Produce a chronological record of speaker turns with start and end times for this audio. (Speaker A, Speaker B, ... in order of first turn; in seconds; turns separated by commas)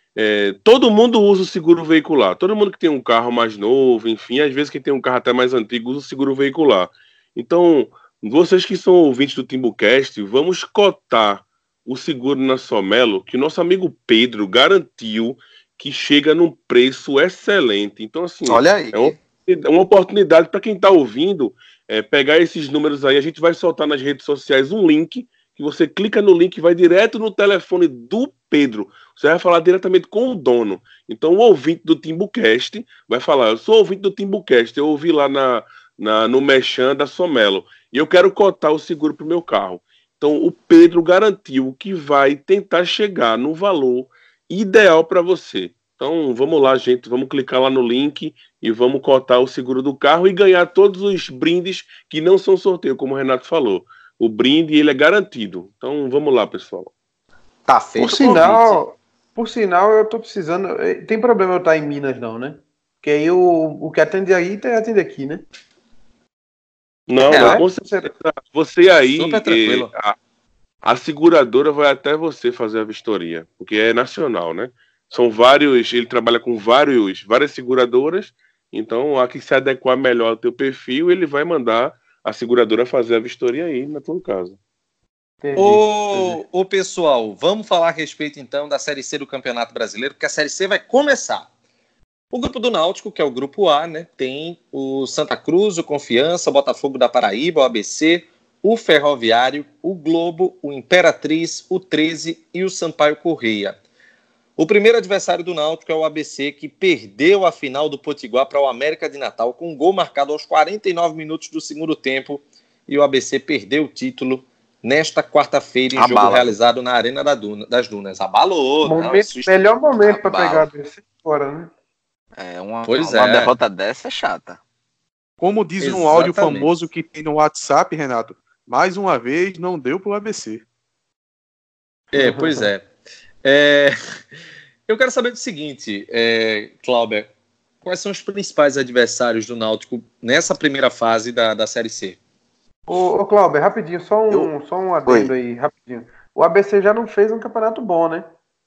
Speaker A: 0.2-56.9, Speaker B: 18.5-19.2, Speaker B: 57.7-58.8, Speaker C: 58.0-65.4, Speaker A: 67.1-70.2, Speaker C: 67.3-68.1, Speaker B: 67.3-67.6, Speaker B: 69.2-69.9, Speaker A: 70.8-84.6, Speaker C: 85.4-86.4, Speaker B: 85.6-91.5, Speaker B: 92.3-103.8, Speaker B: 104.6-119.5, Speaker D: 116.0-116.5, Speaker C: 118.8-121.7, Speaker D: 120.0-120.7, Speaker D: 122.4-124.6, Speaker B: 122.8-123.5, Speaker E: 125.4-130.6, Speaker B: 125.8-126.7, Speaker B: 132.1-132.8, Speaker C: 132.2-132.7, Speaker B: 133.4-134.0, Speaker B: 134.9-137.3, Speaker B: 137.8-142.2, Speaker C: 142.9-148.3, Speaker D: 145.1-145.3